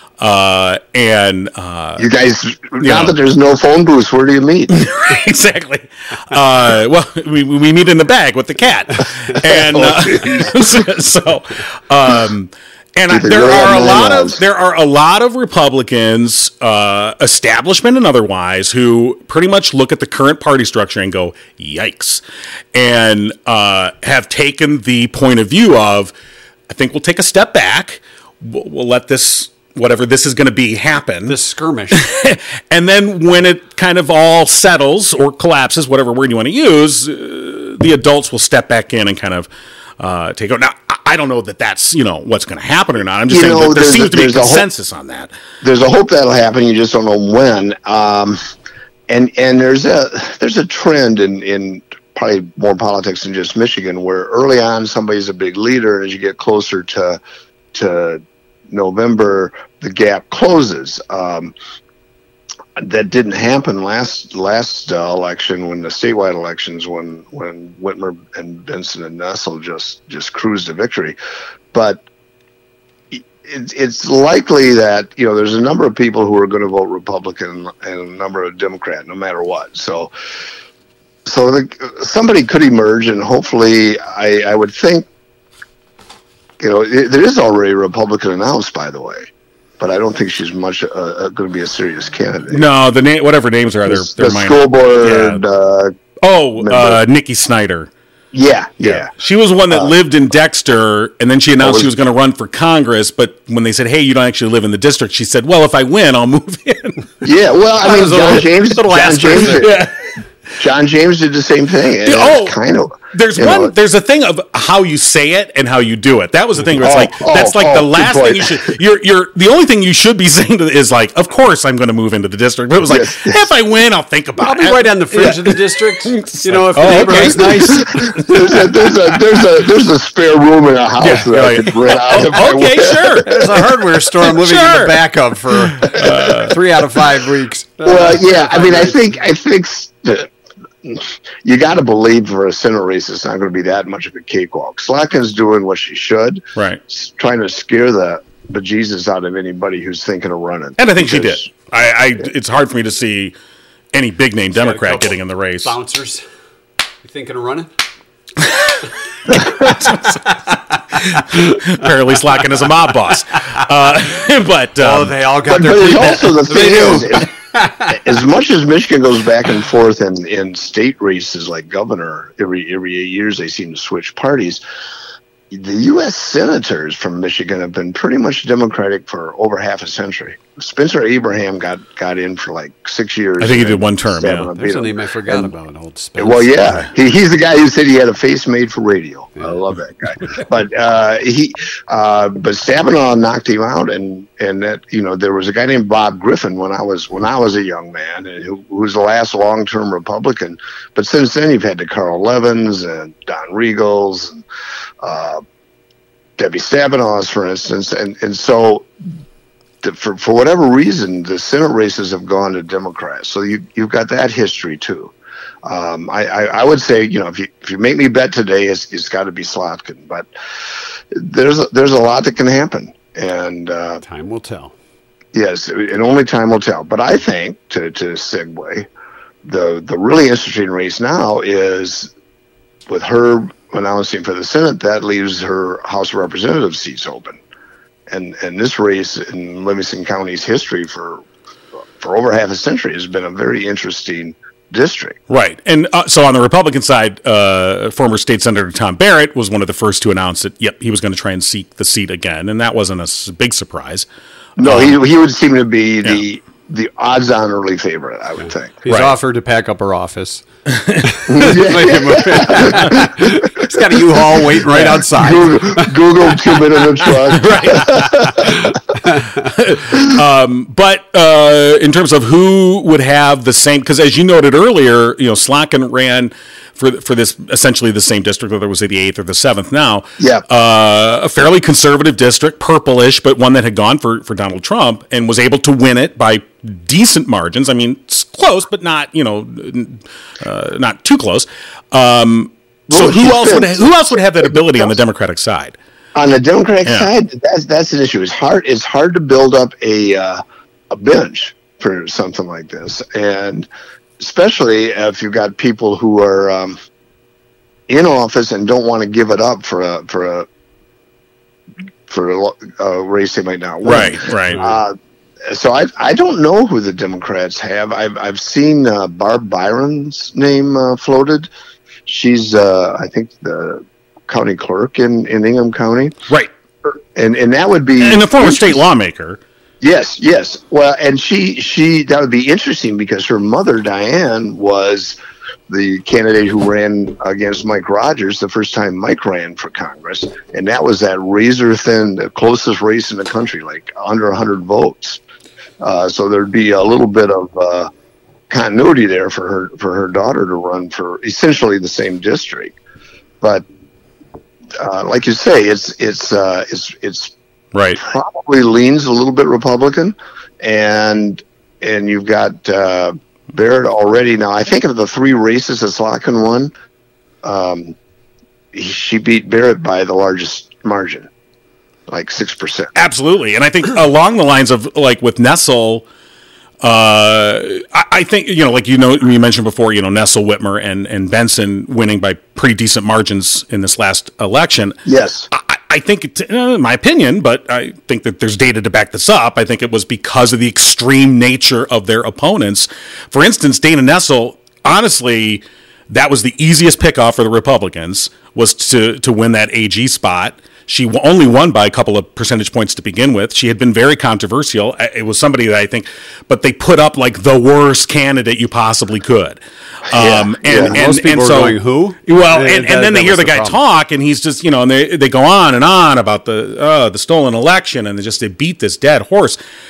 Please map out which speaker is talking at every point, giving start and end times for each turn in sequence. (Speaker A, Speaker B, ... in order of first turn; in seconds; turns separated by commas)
Speaker A: 0.2-2.1, Speaker B: 2.0-4.8, Speaker A: 2.8-3.1, Speaker A: 4.7-26.1, Speaker B: 9.4-10.7, Speaker B: 13.1-14.4, Speaker A: 26.7-31.4, Speaker C: 31.3-32.0, Speaker A: 31.9-45.3, Speaker B: 43.3-44.7, Speaker B: 45.6-48.4, Speaker B: 49.1-57.2, Speaker B: 57.7-61.5, Speaker B: 62.8-71.2, Speaker B: 71.7-72.0, Speaker B: 73.1-80.1, Speaker B: 81.2-85.1, Speaker B: 86.6-89.3, Speaker B: 89.8-92.7, Speaker A: 92.5-95.4, Speaker B: 93.9-95.9, Speaker A: 96.2-97.9, Speaker B: 96.6-97.0, Speaker B: 98.3-99.1, Speaker A: 98.8-107.0, Speaker B: 101.6-101.9, Speaker B: 107.2-109.9, Speaker C: 107.8-109.7, Speaker A: 109.5-110.0, Speaker B: 110.6-113.7, Speaker A: 112.0-112.6, Speaker A: 113.1-128.8, Speaker B: 116.8-118.7, Speaker B: 122.9-123.5, Speaker C: 124.4-128.2, Speaker B: 128.0-133.4, Speaker A: 131.0-133.4, Speaker C: 133.2-139.2, Speaker A: 134.2-135.0, Speaker A: 135.7-136.6, Speaker B: 137.8-140.3, Speaker B: 140.8-151.5, Speaker A: 150.8-153.3, Speaker A: 153.9-155.7, Speaker C: 154.5-156.2, Speaker C: 157.0-157.7, Speaker A: 158.4-158.7, Speaker A: 159.3-160.4, Speaker A: 160.9-165.1, Speaker C: 161.1-161.6, Speaker C: 163.4-163.6, Speaker C: 164.8-168.0, Speaker B: 165.5-167.3, Speaker B: 167.9-174.6, Speaker B: 175.5-185.5, Speaker A: 183.4-184.5, Speaker C: 184.6-186.6, Speaker B: 186.2-204.4, Speaker B: 205.0-205.4, Speaker B: 206.4-208.9, Speaker B: 209.8-215.1, Speaker B: 215.7-220.3, Speaker B: 221.1-224.0, Speaker C: 224.0-224.7, Speaker B: 225.3-228.9, Speaker B: 229.4-232.1, Speaker B: 232.9-237.4, Speaker B: 238.1-241.2, Speaker B: 242.0-245.2, Speaker A: 245.3-254.1, Speaker B: 254.6-258.8, Speaker A: 254.6-255.0, Speaker C: 258.8-260.4, Speaker A: 258.9-259.1, Speaker A: 260.7-261.1, Speaker C: 261.0-266.6, Speaker B: 261.3-263.0, Speaker B: 264.7-268.6, Speaker A: 267.3-268.3, Speaker C: 268.4-269.4, Speaker A: 269.4-295.8, Speaker B: 280.2-280.4, Speaker B: 292.9-294.9, Speaker B: 296.1-306.8, Speaker A: 296.8-297.1, Speaker B: 307.9-310.5, Speaker B: 312.1-314.9, Speaker A: 313.9-314.6, Speaker C: 314.5-314.8, Speaker B: 315.5-321.5, Speaker B: 322.1-326.1, Speaker B: 327.1-328.9, Speaker A: 328.0-329.4, Speaker B: 329.8-335.2, Speaker B: 335.7-345.2, Speaker B: 345.8-347.9, Speaker B: 348.5-352.8, Speaker B: 354.8-357.3, Speaker A: 357.7-358.0, Speaker B: 358.0-366.7, Speaker B: 367.4-368.0, Speaker B: 368.7-371.3, Speaker B: 372.1-373.0, Speaker A: 372.9-376.1, Speaker A: 376.8-385.0, Speaker B: 385.1-385.5, Speaker A: 385.5-419.6, Speaker B: 410.1-410.9, Speaker C: 410.7-413.8